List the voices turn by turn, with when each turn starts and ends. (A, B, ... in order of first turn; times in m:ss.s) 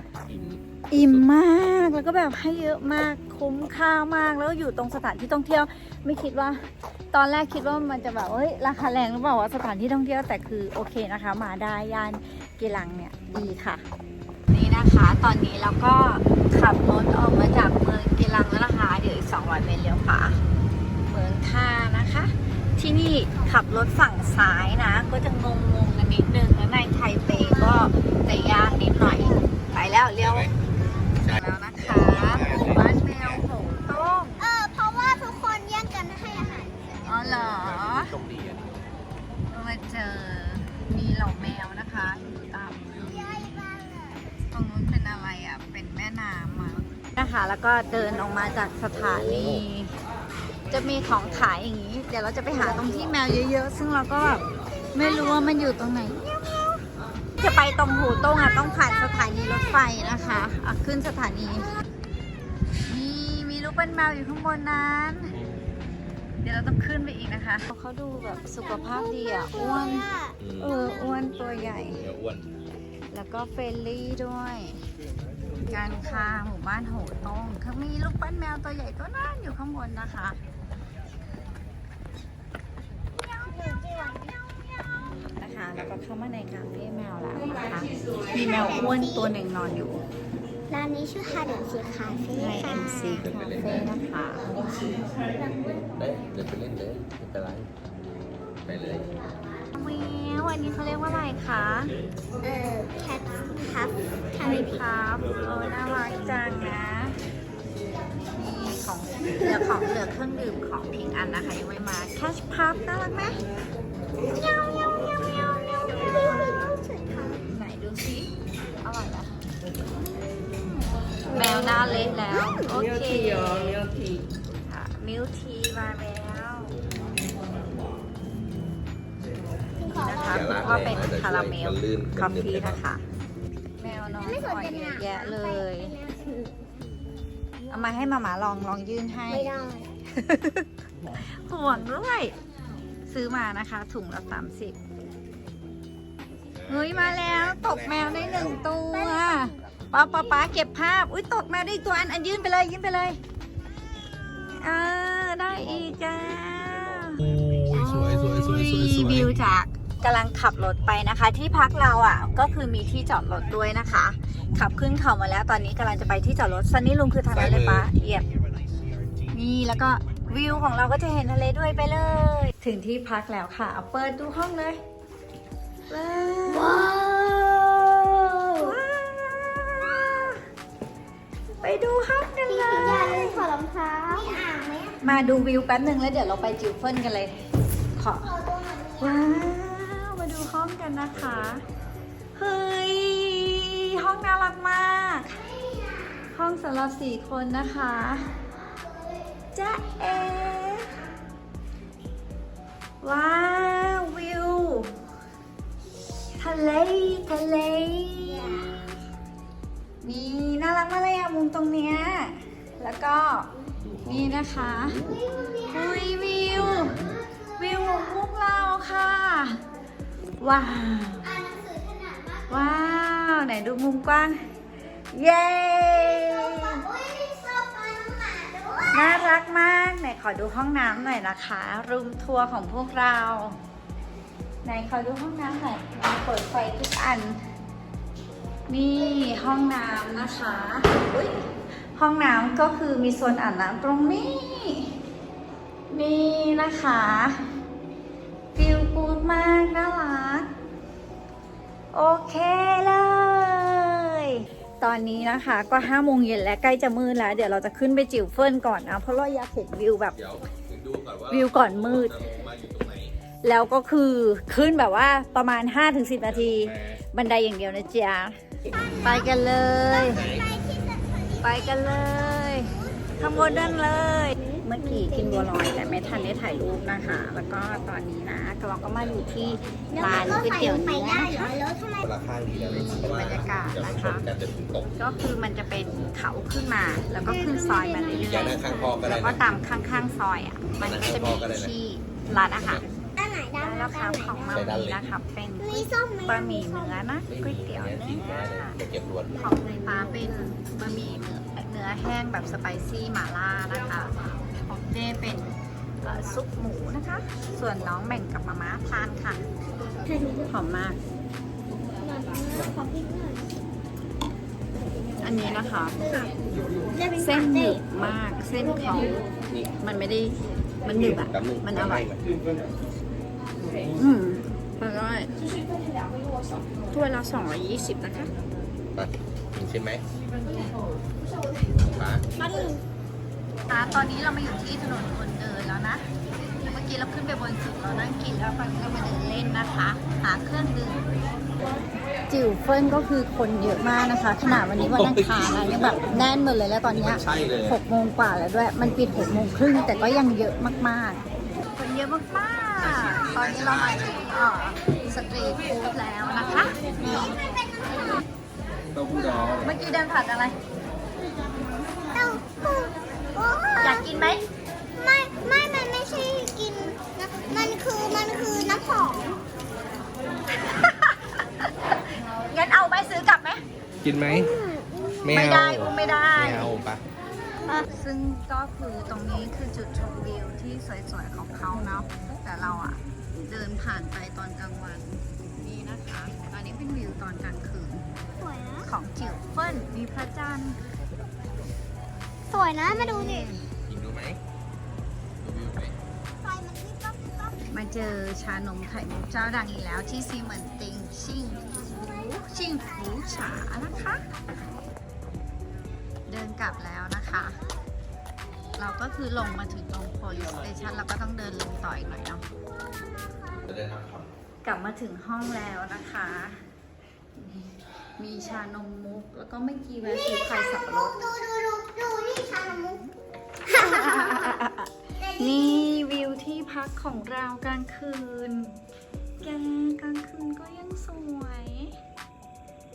0:00.3-0:01.3 A
0:00.9-0:13.8 B
0:14.5-0:20.4 B
0:21.0-0:30.5 B
0:27.3-0:29.5 C
0:30.2-0:30.5 A
0:31.2-0:33.4 A
0:31.2-0:34.5 B
0:34.4-0:37.2 C
0:37.0-0:38.1 B
0:37.2-0:38.7 A
0:39.5-0:43.2 B
0:43.0-0:44.3 C
0:44.5-0:49.9 B
0:48.9-0:49.6 A
0:50.7-0:56.8 B
0:52.6-0:53.1 C
0:54.8-0:55.6 C
0:57.4-1:01.7 B
0:58.2-0:59.4 C
1:02.9-1:05.3 B
1:06.4-1:10.0 B
1:08.6-1:11.8 C
1:10.4-1:10.7 A
1:10.6-1:12.0 B
1:12.0-1:12.5 A
1:13.1-1:14.8 B
1:15.7-1:20.4 B
1:23.2-1:24.6 C
1:25.3-1:30.0 B
1:28.5-1:29.3 C
1:30.7-1:33.2 C
1:32.3-1:34.5 B
1:33.2-1:33.9 A
1:34.8-1:35.8 C
1:36.0-1:37.7 A
1:38.6-1:39.1 A
1:39.7-1:41.9 B
1:42.4-1:44.9 C
1:44.4-1:47.2 B
1:48.3-1:53.4 B
1:54.2-1:57.4 C
1:57.4-1:59.4 B
2:01.3-2:03.9 B
2:01.3-2:02.7 C
2:04.5-2:06.7 B
2:09.8-2:10.8 C
2:09.9-2:13.0 B
2:10.3-2:12.8 A
2:13.8-2:16.0 B
2:14.2-2:17.0 C
2:17.7-2:19.6 B
2:19.3-2:19.9 C
2:20.1-2:22.3 B
2:23.1-2:24.8 B
2:26.6-2:28.6 A
2:26.7-2:33.2 B
2:28.3-2:29.6 C
2:34.3-2:48.2 B
2:35.6-2:39.3 A
2:47.3-2:47.9 A
2:49.3-2:54.8 B
2:55.9-2:56.9 B
2:56.5-2:58.8 C
2:58.6-3:00.4 B
3:01.5-3:01.9 C
3:01.6-3:03.4 B
3:02.5-3:05.0 C
3:02.8-3:03.2 A
3:05.0-3:07.4 B
3:08.0-3:08.3 B
3:08.2-3:09.4 C
3:09.0-3:11.6 B
3:11.1-3:11.7 A
3:12.4-3:15.4 B
3:15.4-3:16.2 C
3:16.3-3:18.3 B
3:18.1-3:19.4 C
3:19.5-3:20.9 B
3:20.0-3:21.0 C
3:23.0-3:25.0 B
3:26.4-3:28.8 B
3:28.1-3:29.0 C
3:30.0-3:33.5 B
3:33.8-3:35.2 A
3:34.0-3:35.0 B
3:35.0-3:39.8 C
3:35.6-3:37.0 B
3:36.5-3:37.2 A
3:37.6-3:39.6 B
3:40.4-3:41.2 B
3:41.2-3:43.0 C
3:42.5-3:44.4 B
3:45.1-3:46.8 B
3:45.8-3:49.3 C
3:48.9-3:53.6 B
3:54.6-3:57.4 B
3:58.7-4:01.3 B
4:01.9-4:04.9 B
4:05.9-4:07.4 B
4:08.5-4:10.5 B
4:11.9-4:20.2 B
4:20.1-4:23.1 A
4:21.3-4:22.2 B
4:23.4-4:28.4 B
4:26.2-4:27.0 A
4:28.7-4:33.7 C
4:29.0-4:30.2 B
4:30.1-4:30.5 A
4:31.4-4:41.6 B
4:34.4-4:36.4 C
4:39.0-4:40.5 A
4:39.9-4:42.0 C
4:42.0-4:44.9 A
4:42.5-4:44.2 B
4:44.9-4:52.8 B
4:47.2-4:49.0 C
4:48.1-4:49.4 A
4:50.7-4:51.7 A
4:53.2-4:54.7 C
4:53.6-4:58.8 B
4:54.5-4:55.1 A
4:55.6-4:57.1 C
4:57.3-4:59.3 A
4:59.3-5:00.6 C
4:59.4-5:09.4 B
5:10.0-5:10.5 C
5:10.5-5:11.0 B
5:12.0-5:13.5 C
5:15.2-5:16.2 B
5:16.0-5:16.3 C
5:16.9-5:17.8 C
5:17.2-5:19.3 B
5:19.8-5:22.1 B
5:20.9-5:22.3 A
5:23.9-5:25.3 B
5:26.9-5:28.3 B
5:28.9-5:30.0 A
5:31.8-5:32.2 A
5:32.4-5:32.8 C
5:33.7-5:41.0 B
5:42.3-5:51.2 B
5:44.7-5:46.3 A
5:46.9-5:47.8 A
5:49.2-5:49.6 A
5:51.8-5:57.3 B
5:52.8-5:54.2 A
5:57.0-5:58.2 C
5:58.9-5:59.7 A
5:59.1-6:00.6 B
6:02.1-6:04.3 C
6:03.8-6:04.4 B
6:04.9-6:09.4 C
6:10.6-6:11.6 B
6:12.5-6:13.6 B
6:14.0-6:14.5 A
6:14.3-6:15.6 C
6:15.2-6:17.0 A
6:15.3-6:16.7 B
6:17.8-6:28.0 B
6:28.4-6:28.9 C
6:28.8-6:30.8 B
6:32.5-6:33.5 C
6:32.9-6:33.7 B
6:33.9-6:34.4 A
6:35.4-6:36.0 A
6:36.4-6:38.0 C
6:37.7-6:44.2 B
6:41.6-6:44.9 C
6:46.3-6:47.6 B
6:47.2-6:47.9 C
6:48.8-6:52.4 B
6:52.6-6:53.7 C
6:53.6-6:54.3 A
6:54.6-6:56.6 B
6:57.4-7:01.2 B
7:00.0-7:03.0 C
7:02.6-7:03.1 B
7:03.6-7:04.6 C
7:03.7-7:08.7 B
7:05.2-7:05.9 C
7:09.4-7:12.0 B